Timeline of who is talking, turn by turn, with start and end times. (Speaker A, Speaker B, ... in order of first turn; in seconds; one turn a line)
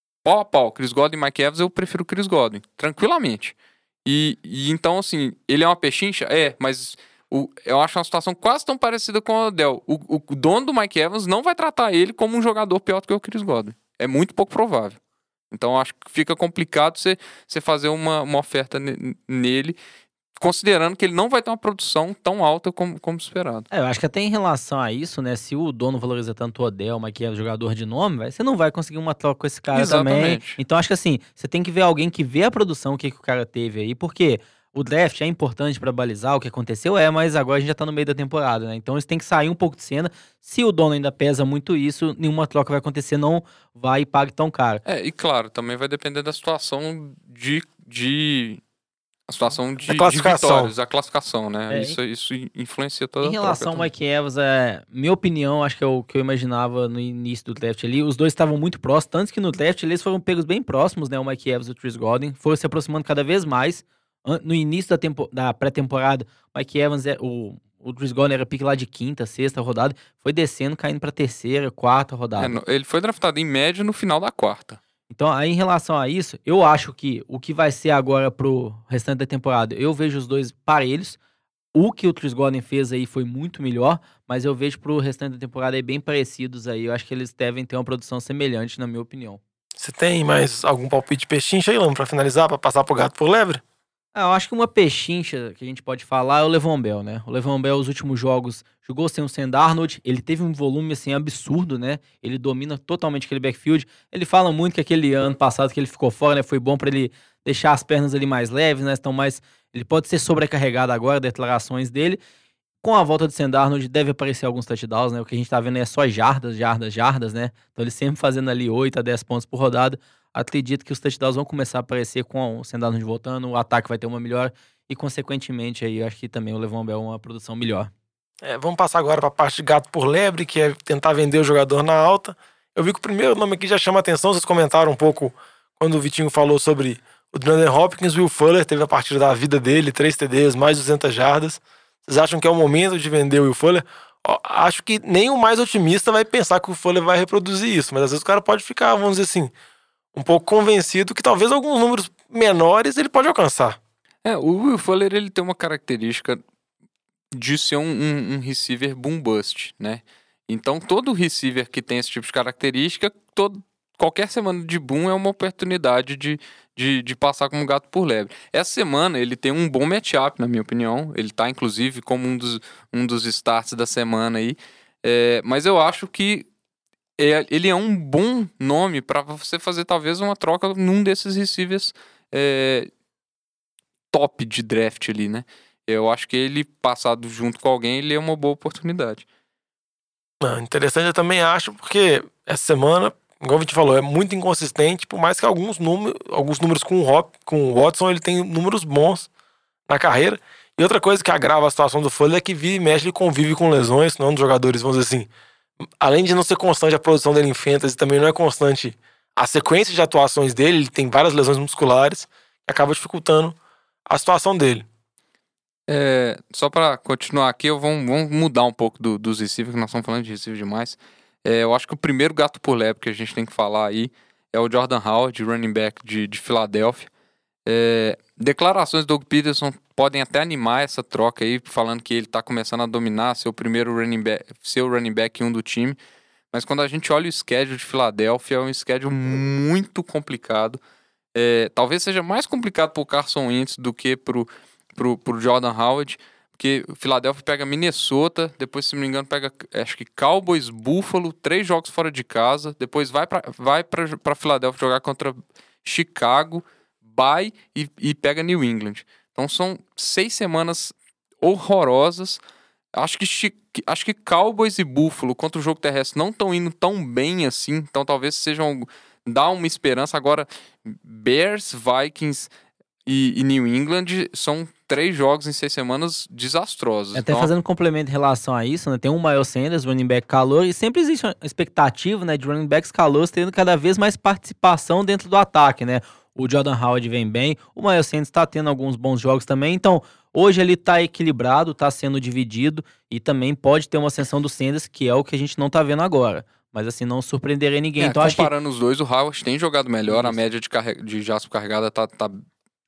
Speaker A: 0.2-15.0
Speaker A: 15.5-19.8
Speaker A: 20.4-23.7
Speaker B: 23.7-44.8
Speaker A: 29.7-30.6
Speaker A: 44.9-48.6
Speaker A: 49.3-53.9
Speaker C: 49.9-50.7
Speaker B: 51.7-52.0
Speaker B: 53.2-72.5
Speaker A: 72.4-74.8
Speaker B: 75.1-81.2
Speaker B: 81.7-89.4
Speaker C: 89.8-93.6
Speaker B: 94.1-112.2
Speaker B: 112.8-127.9
Speaker C: 128.4-149.5
Speaker C: 150.1-153.8
Speaker A: 154.2-156.4
Speaker A: 157.3-176.5
Speaker A: 177.2-182.9
Speaker A: 184.1-189.2
Speaker C: 190.4-199.3
Speaker C: 199.9-205.3
Speaker C: 206.0-213.6
Speaker C: 214.1-214.8
Speaker A: 215.9-227.1
Speaker A: 227.7-236.0
Speaker A: 236.5-240.8
Speaker A: 241.3-262.4
Speaker A: 262.9-272.5
Speaker A: 273.1-277.5
Speaker B: 277.1-298.5
Speaker A: 298.0-302.4
Speaker B: 300.1-300.4